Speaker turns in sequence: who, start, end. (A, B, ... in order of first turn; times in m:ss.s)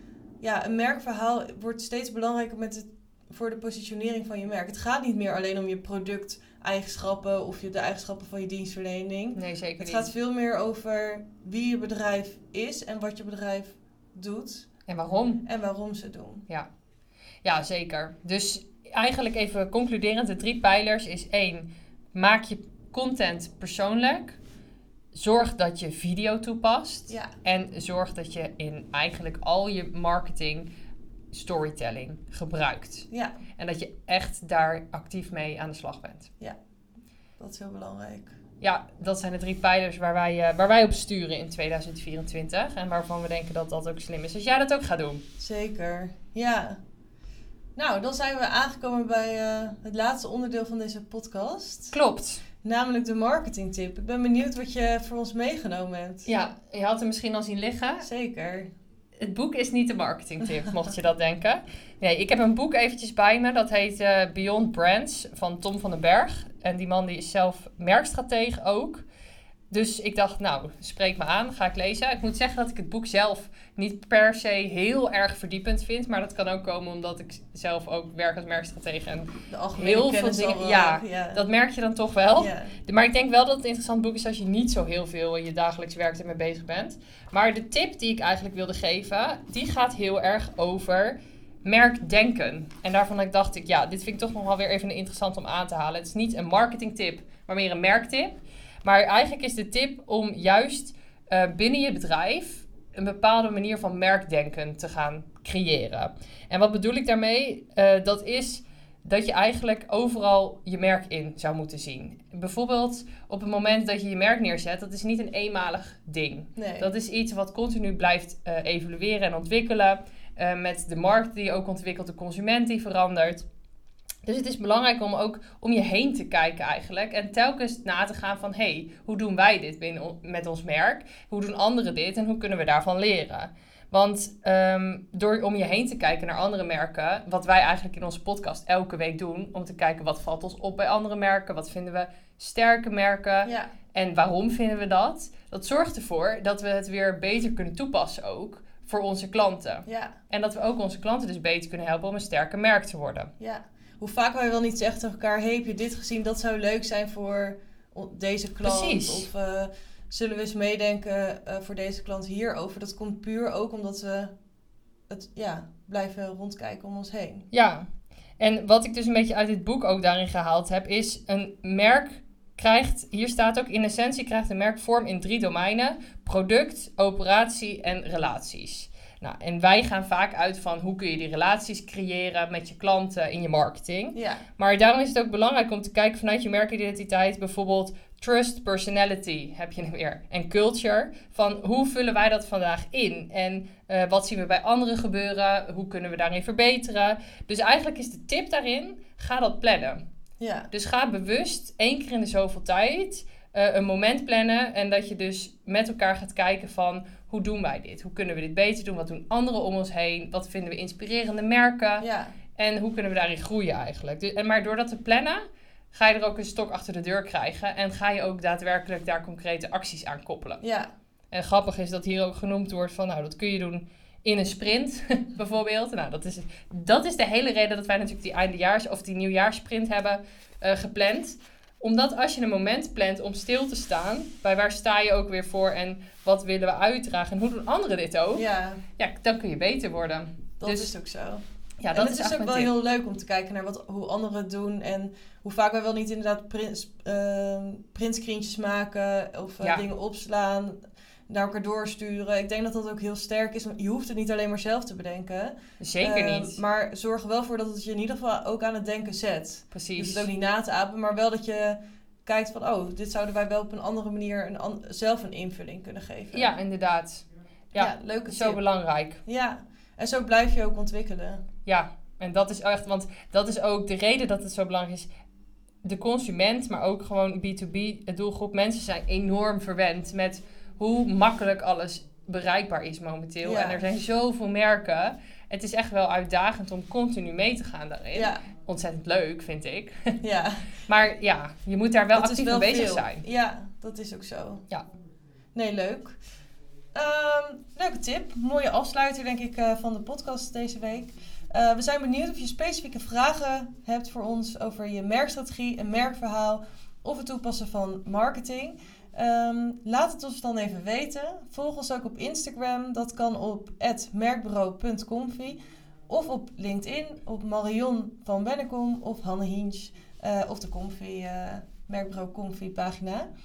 0:00.4-0:14.7 A
0:09.3-0:10.1 B
0:14.9-0:15.4 B
0:15.4-0:16.4 A
0:17.4-0:24.4 B
0:25.1-0:30.7 B
0:31.3-0:36.3 B
0:33.1-0:33.3 A
0:37.4-0:38.3 A
0:38.6-0:45.2 B
0:45.4-0:46.8 A
0:47.8-0:51.9 A
0:51.9-0:52.4 B
0:52.6-0:56.3 A
0:56.3-0:58.0 B
0:58.0-0:58.7 A
0:59.2-1:09.0 B
1:09.7-2:03.5 B
1:19.5-1:21.4 A
1:22.3-1:22.8 A
1:56.6-1:56.9 A
2:04.2-2:33.3 B
2:23.4-2:23.7 A
2:29.8-2:30.1 A
2:33.4-2:44.3 A
2:38.6-2:39.3 B
2:45.1-2:47.5 A
2:47.5-2:47.9 B
2:48.4-3:20.0 B
3:04.1-3:04.4 A
3:20.4-3:20.7 A
3:20.7-3:35.4 B
3:32.0-3:32.4 A
3:35.9-3:40.6 B
3:40.6-3:40.9 A
3:41.3-3:58.4 B
3:58.3-3:58.8 A
3:59.0-4:00.9 B
4:00.6-4:10.8 A
4:01.8-4:02.7 B
4:11.3-4:26.5 A
4:15.8-4:16.6 B
4:19.7-4:20.3 B
4:26.3-4:29.2 B
4:27.7-4:28.6 A
4:29.2-4:31.4 A
4:31.6-4:35.1 B
4:35.8-4:50.2 B
4:43.4-4:43.9 A
4:48.1-4:48.4 A
4:50.2-4:50.7 A
4:50.9-4:53.2 B
4:52.2-4:54.6 A
4:55.5-4:56.2 A
4:56.9-5:23.3 A